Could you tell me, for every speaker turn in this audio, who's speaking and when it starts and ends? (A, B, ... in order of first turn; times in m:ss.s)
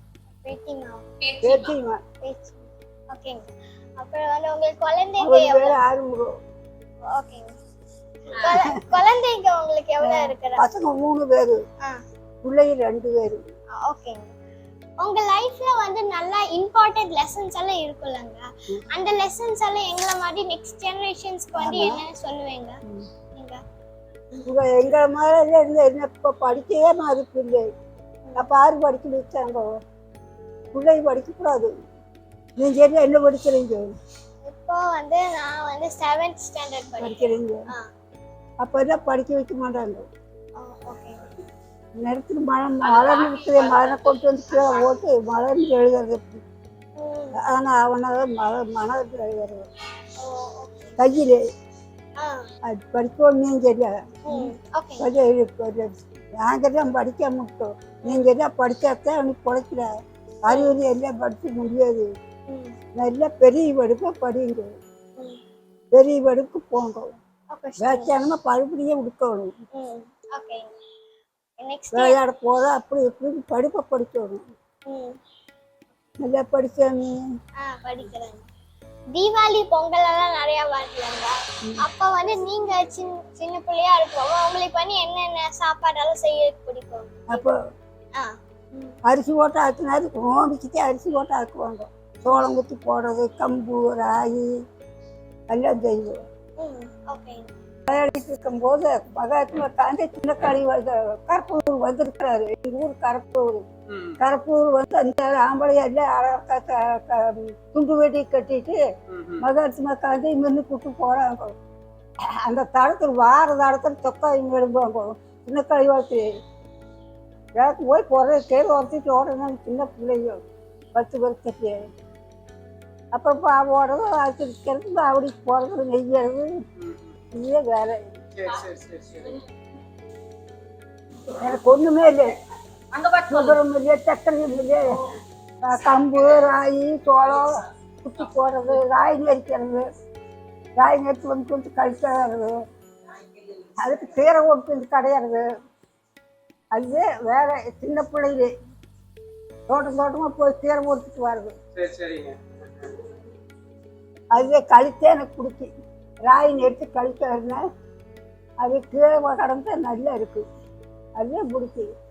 0:00.4-0:01.6 A
0:01.4-0:02.0 B
0:02.2-0:05.8 A
0:05.2-0:06.3 B
0:07.1-0:07.6 A
0:08.3-0:10.7 A
0:08.4-0:09.0 B
0:10.0-0:11.6 B
0:12.4-0:13.4 B
0:13.8-0:14.4 A
0:15.0-0:22.8 A
0:21.6-0:22.0 B
0:23.3-0:23.6 A
0:24.5-0:27.7 B
0:28.4-0:29.7 B
0:30.7-0:31.7 B
0:32.6-0:33.9 B
0:34.4-0:37.9 A
0:37.0-0:37.6 B
0:38.6-0:40.0 B
0:40.6-0:41.2 A
0:42.0-0:46.2 B
0:47.0-0:47.4 A
0:47.4-0:49.6 B
0:50.2-0:51.0 A
0:51.0-0:51.4 B
0:52.2-0:52.5 A
0:52.6-0:59.9 B
0:54.3-0:55.1 A
1:00.4-1:02.1 B
1:00.5-1:00.8 A
1:02.5-1:02.8 A
1:03.0-1:04.7 B
1:05.9-1:07.1 B
1:07.5-1:08.2 A
1:07.8-1:09.5 B
1:09.7-1:10.8 A
1:11.6-1:12.2 A
1:11.9-1:14.4 B
1:14.9-1:15.2 A
1:16.2-1:17.2 B
1:17.6-1:18.5 A
1:19.1-1:27.5 A
1:27.3-1:27.6 B
1:28.2-1:29.0 A
1:29.1-1:34.5 B
1:35.5-1:36.2 B
1:36.6-1:37.5 A
1:37.9-1:43.6 B
1:43.9-1:44.2 C
1:44.2-1:48.8 B
1:49.1-1:49.4 C
1:49.4-1:51.5 B
1:52.2-1:56.3 B
1:57.6-2:00.4 B
2:01.0-2:01.9 B
2:03.1-2:06.6 B
2:07.3-2:08.1 B
2:08.4-2:09.4 C
2:11.3-2:12.4 B
2:13.1-2:19.9 B
2:20.8-2:22.6 B
2:23.8-2:25.4 B
2:26.7-2:28.5 B
2:29.7-2:31.6 B
2:31.8-2:32.9 C
2:34.3-2:35.7 B
2:36.3-2:37.6 B
2:38.6-2:40.4 B
2:41.2-2:41.9 B